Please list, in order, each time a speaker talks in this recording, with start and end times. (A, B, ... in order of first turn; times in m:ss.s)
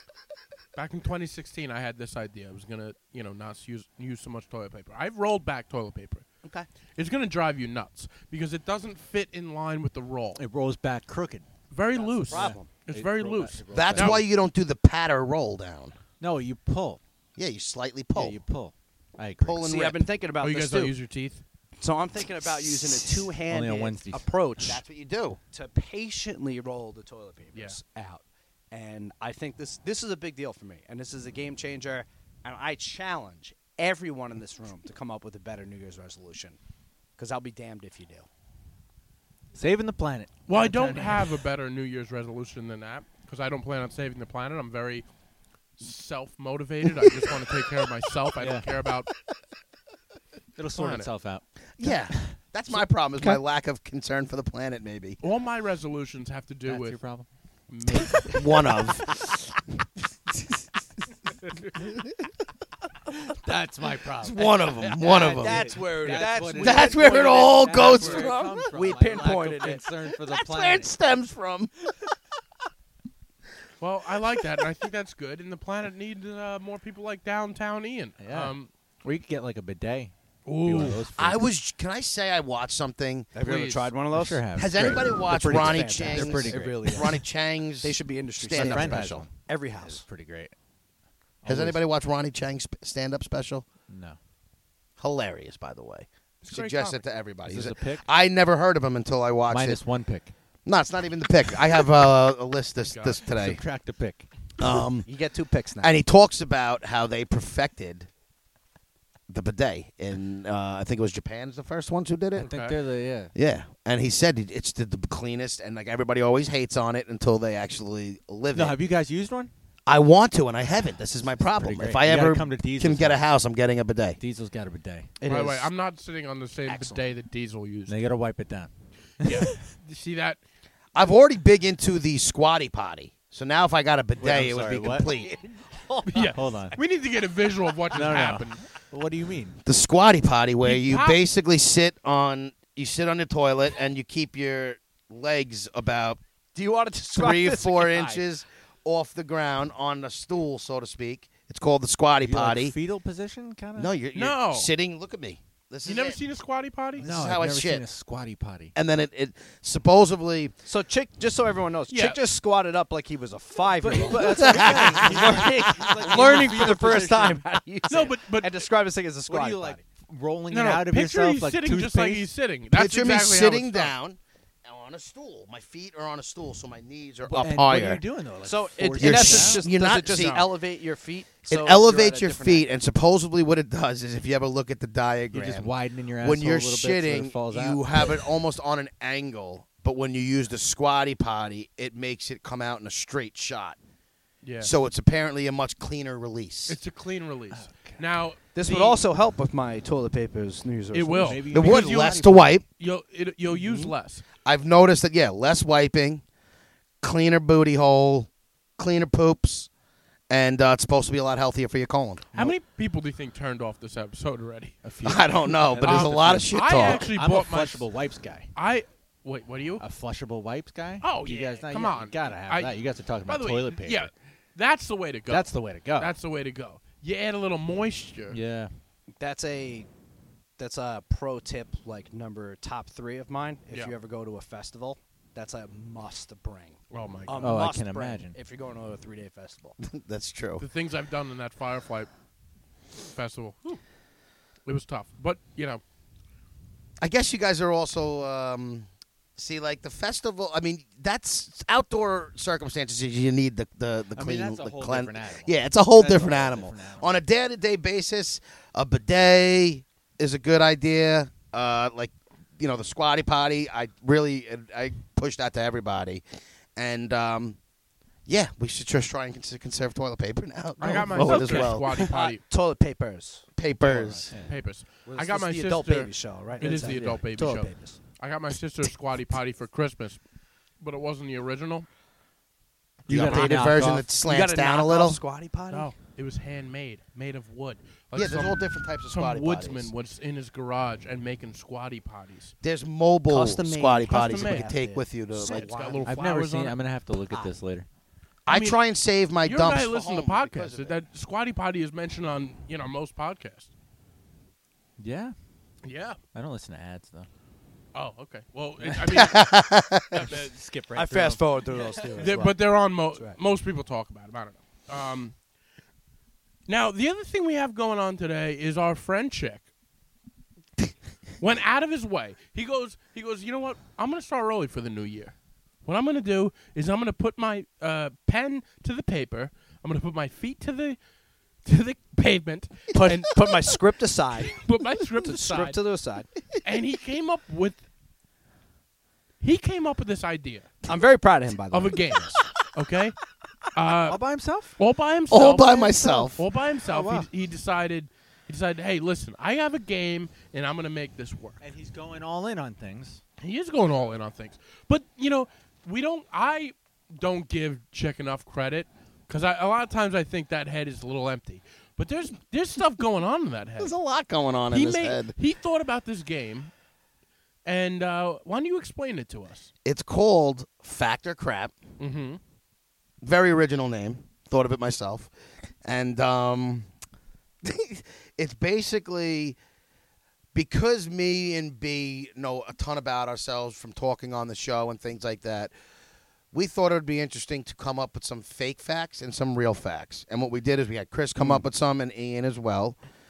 0:00.8-0:06.2 A
0:07.0-0:10.4 A
0:10.4-0:11.5 B
0:11.7-0:14.2 A
0:11.9-0:12.7 C
0:12.3-0:14.2 B
0:13.7-0:15.9 D
0:16.2-0:17.0 B
0:17.4-0:18.4 D
0:18.2-0:19.7 B
0:19.4-0:20.0 D
0:19.6-0:20.9 C
0:20.4-0:21.4 A
0:21.8-0:24.8 C
0:23.5-0:24.3 B
0:24.6-0:25.4 D
0:25.5-0:36.6 C
0:37.2-0:38.3 C
0:39.5-0:41.4 B
0:40.5-0:45.0 A
0:45.8-0:49.1 A
0:48.4-0:48.7 B
0:50.6-0:52.3 B
0:50.7-0:51.1 A
0:51.8-0:55.2 D
0:55.2-0:57.0 A
0:56.7-0:57.3 B
0:57.7-0:58.5 A
0:58.0-0:58.3 B
0:58.3-0:59.1 D
1:03.3-1:10.9 B
1:04.2-1:05.8 D
1:04.9-1:07.8 C
1:06.6-1:08.6 D
1:07.8-1:08.3 A
1:08.7-1:09.8 C
1:10.2-1:11.7 D
1:13.8-1:18.7 A
1:18.2-1:21.4 B
1:20.5-1:21.1 A
1:21.2-1:23.3 D
1:23.3-1:24.4 C
1:23.4-1:23.9 A
1:24.1-1:27.2 B
1:24.6-1:29.3 D
1:25.2-1:27.2 C
1:27.8-1:30.1 C
1:28.5-1:29.3 B
1:29.9-1:30.5 B
1:31.4-1:31.8 B
1:31.4-1:33.7 D
1:33.9-1:34.2 B
1:35.0-1:39.8 D
1:36.4-1:37.0 A
1:37.5-1:38.1 B
1:39.5-1:40.3 B
1:40.7-1:43.6 D
1:42.8-1:43.2 A
1:43.3-1:44.3 B
1:44.6-1:45.1 D
1:45.1-1:46.0 C
1:45.8-1:48.1 D
1:49.3-1:52.5 D
1:52.4-1:53.3 B
1:52.4-1:52.8 A
1:53.4-1:58.8 D
1:58.5-1:59.5 B
1:59.9-2:04.2 D
2:01.6-2:03.2 B
2:04.2-2:05.1 B
2:05.2-2:05.7 C
2:05.3-2:08.0 A
2:06.7-2:07.0 D
2:07.9-2:09.6 B
2:09.2-2:10.4 A
2:10.9-2:15.4 D
2:14.2-2:15.1 B
2:15.2-2:16.8 C
2:16.1-2:18.7 A
2:16.2-2:16.8 B
2:17.9-2:19.6 B
2:19.6-2:26.2 D
2:20.6-2:21.2 A
2:26.6-2:28.2 C
2:27.1-2:32.8 D
2:32.2-2:33.9 B
2:33.8-2:36.2 D
2:34.1-2:34.7 A
2:35.8-2:37.1 A
2:37.0-2:37.8 D
2:37.0-2:38.7 B
2:38.8-2:40.5 D
2:40.7-2:49.8 C
2:41.9-2:42.2 A
2:43.8-2:47.4 B
2:44.2-2:46.2 D
2:47.9-2:48.6 A
2:49.3-2:52.3 B
2:50.5-2:53.9 A
2:52.7-2:58.0 D
2:57.4-2:59.7 B
2:58.4-3:02.7 C
2:59.0-3:00.4 D
3:00.1-3:00.5 A
3:01.5-3:13.8 D
3:05.3-3:08.2 B
3:14.4-3:14.7 A
3:14.6-3:16.8 D
3:16.7-3:19.0 A
3:17.5-3:18.0 B
3:18.6-3:21.4 C
3:20.9-3:24.2 A
3:21.1-3:22.5 B
3:21.5-3:22.6 D
3:24.4-3:26.2 D
3:27.0-3:29.7 D
3:30.3-3:32.4 D
3:32.3-3:34.9 A
3:34.9-3:38.5 B
3:35.0-3:37.1 D
3:35.8-3:37.9 A
3:38.6-3:39.8 A
3:39.8-3:44.1 B
3:41.0-3:48.4 A
3:45.3-3:46.1 B
3:48.3-3:48.7 B
3:49.2-3:49.9 C
3:50.6-3:59.8 C
3:56.9-3:57.5 A
3:57.4-3:58.4 B
3:59.8-4:00.6 D
4:00.6-4:02.1 A
4:03.0-4:03.8 A
4:04.7-4:05.8 A
4:07.0-4:26.2 D
4:14.2-4:17.1 B
4:26.8-4:27.6 D
4:28.3-4:32.1 D
4:30.8-4:32.4 A
4:30.9-4:31.7 B
4:31.4-4:33.4 C
4:33.6-4:34.3 D
4:34.1-4:40.2 A
4:34.3-4:34.6 B
4:35.1-4:38.0 C
4:36.6-4:37.2 B
4:40.8-4:41.9 A
4:43.1-4:44.1 B
4:43.1-4:45.2 D
4:44.2-4:45.9 C
4:45.7-4:52.5 A
4:48.1-4:49.9 D
4:52.6-4:55.7 D
4:53.3-4:56.1 C
4:54.1-4:54.7 A
4:55.4-4:56.8 A
4:56.0-4:57.9 B
4:58.5-5:01.0 D
4:58.5-4:58.8 A
4:59.4-5:03.7 A
5:05.0-5:05.4 B
5:05.8-5:06.2 A
5:06.3-5:07.3 B
5:07.9-5:09.5 A
5:09.1-5:10.3 D
5:10.1-5:10.6 A
5:10.2-5:12.5 B
5:11.0-5:12.6 C
5:12.2-5:15.4 A
5:16.7-5:19.6 A
5:21.4-5:31.0 A
5:31.6-5:33.2 A
5:33.0-5:34.6 C
5:34.5-5:35.8 A
5:35.2-5:36.3 C
5:36.6-5:37.8 A
5:39.4-5:40.7 A
5:40.9-5:42.4 C
5:41.7-5:43.2 A
5:43.8-5:44.2 A
5:44.1-5:44.8 B
5:44.8-5:51.6 A
5:45.3-5:46.4 D
5:46.8-5:47.3 B
5:51.6-5:53.2 B
5:53.4-6:03.9 A
6:03.8-6:05.3 D
6:04.7-6:06.7 A
6:07.7-6:09.7 A
6:09.8-6:11.7 D
6:12.0-6:12.4 A
6:13.2-6:15.3 D
6:15.8-6:16.9 D
6:17.6-6:19.6 D
6:20.5-6:25.7 D
6:26.5-6:33.0 D